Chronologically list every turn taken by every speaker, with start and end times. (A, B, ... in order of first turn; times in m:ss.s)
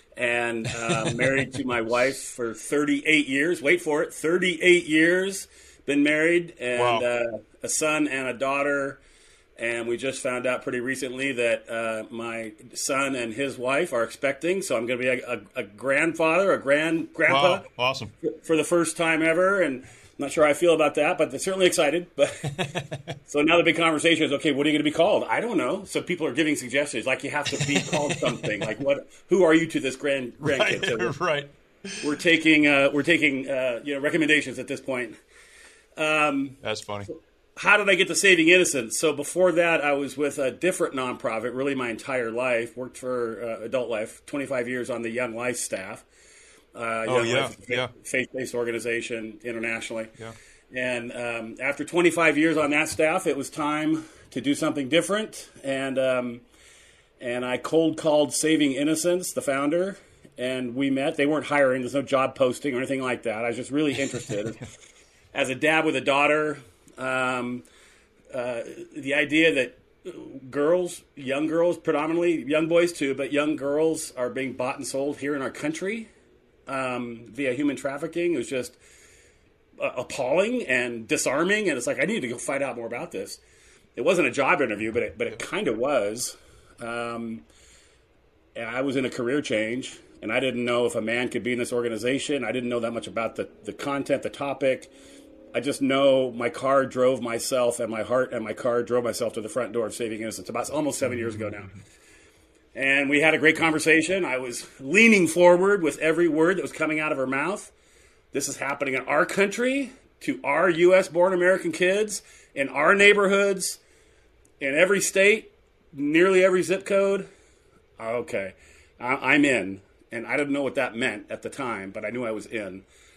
0:00.2-0:09.0 A
0:06.7-0:07.0 B
0:09.6-0:17.6 A
0:17.3-0:18.1 B
0:18.2-0:22.6 A
0:22.6-0:22.9 B
0:23.3-0:31.2 A
0:27.6-0:28.7 B
0:30.4-0:32.0 B
0:32.0-0:35.2 A
0:36.0-0:36.6 A
0:36.6-0:37.1 B
0:37.1-0:46.0 A
0:46.7-0:50.1 A
0:47.0-0:47.9 B
0:50.7-0:56.4 A
0:57.2-1:04.7 A
1:05.3-1:07.6 A
1:08.3-1:16.1 A
1:16.7-1:18.8 A
1:19.8-1:23.4 A
1:24.0-1:27.4 A
1:28.6-1:34.9 A
1:35.5-1:41.7 A
1:42.8-1:47.7 A
1:48.3-1:53.8 A
1:54.6-1:57.3 A
1:58.0-2:02.8 A